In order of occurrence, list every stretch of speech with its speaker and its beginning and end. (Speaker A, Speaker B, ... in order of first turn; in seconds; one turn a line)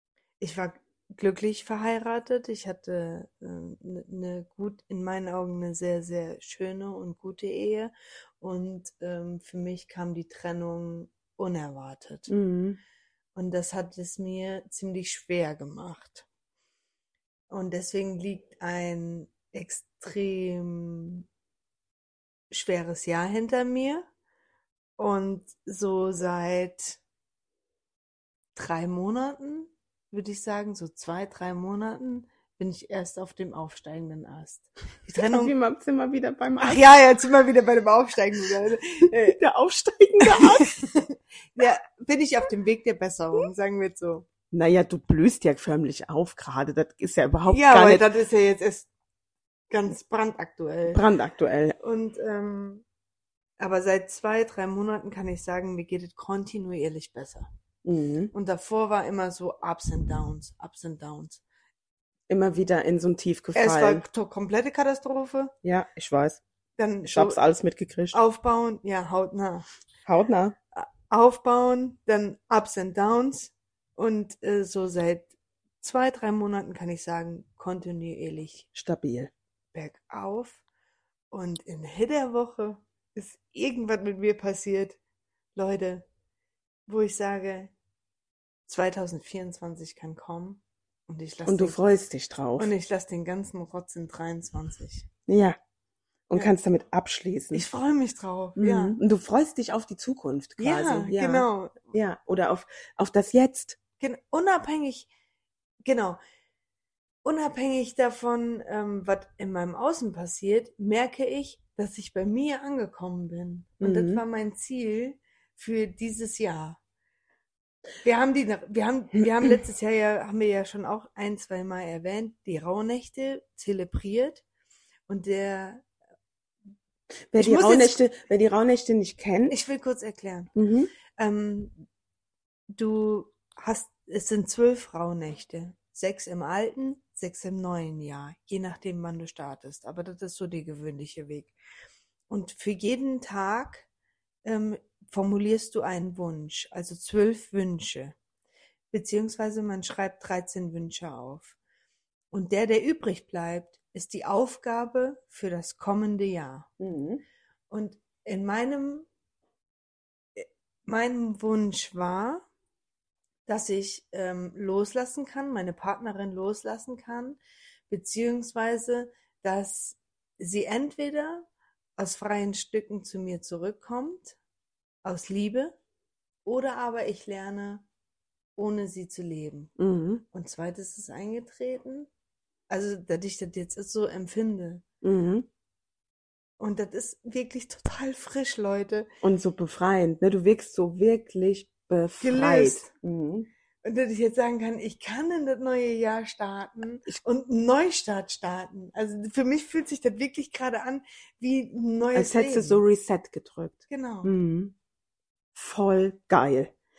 Speaker A: 0.4-12.3
Speaker B: 12.3-12.8
Speaker A: 13.3-16.3
Speaker A: 17.5-21.3
Speaker A: 22.5-24.1
Speaker A: 25.0-27.0
Speaker A: 28.6-35.5
Speaker B: 35.3-36.8
Speaker A: 36.6-39.3
Speaker B: 39.1-40.7
Speaker A: 40.2-44.3
Speaker B: 44.5-48.0
Speaker A: 47.5-48.9
Speaker A: 49.7-51.0
Speaker B: 50.9-51.8
Speaker A: 51.8-52.8
Speaker A: 53.6-57.5
Speaker B: 57.9-58.3
Speaker A: 58.3-61.4
Speaker B: 62.3-64.0
Speaker A: 63.5-65.5
Speaker B: 65.6-66.4
Speaker A: 66.8-67.4
Speaker B: 67.1-68.2
Speaker A: 68.1-69.7
Speaker B: 70.1-70.6
Speaker A: 70.8-75.3
Speaker A: 75.8-78.7
Speaker B: 78.8-79.3
Speaker A: 79.7-80.6
Speaker A: 81.3-85.0
Speaker A: 85.6-86.0
Speaker A: 86.9-87.7
Speaker A: 88.7-91.8
Speaker B: 91.5-92.7
Speaker A: 92.6-95.1
Speaker B: 95.3-95.6
Speaker B: 96.3-97.7
Speaker A: 97.5-99.0
Speaker B: 98.6-103.8
Speaker A: 100.6-101.8
Speaker A: 104.0-105.1
Speaker A: 105.8-106.2
Speaker A: 107.2-116.8
Speaker B: 113.8-114.2
Speaker A: 118.0-124.4
Speaker A: 125.1-125.9
Speaker B: 127.3-129.6
Speaker A: 127.4-128.0
Speaker A: 129.5-130.5
Speaker B: 130.6-130.9
Speaker A: 131.2-131.8
Speaker A: 132.7-141.5
Speaker A: 142.3-143.9
Speaker A: 144.4-148.2
Speaker A: 148.9-151.6
Speaker A: 152.3-156.7
Speaker B: 156.8-157.2
Speaker A: 157.7-159.1
Speaker A: 160.4-162.5
Speaker A: 163.5-174.4
Speaker A: 175.0-175.8
Speaker A: 176.4-177.8
Speaker A: 178.6-179.7
Speaker B: 179.8-180.2
Speaker A: 180.3-182.1
Speaker A: 182.7-184.8
Speaker B: 185.0-185.5
Speaker A: 186.6-189.1
Speaker B: 189.2-193.5
Speaker A: 192.2-192.9
Speaker A: 193.8-202.8
Speaker B: 202.2-204.7
Speaker A: 203.9-204.3
Speaker B: 205.6-206.7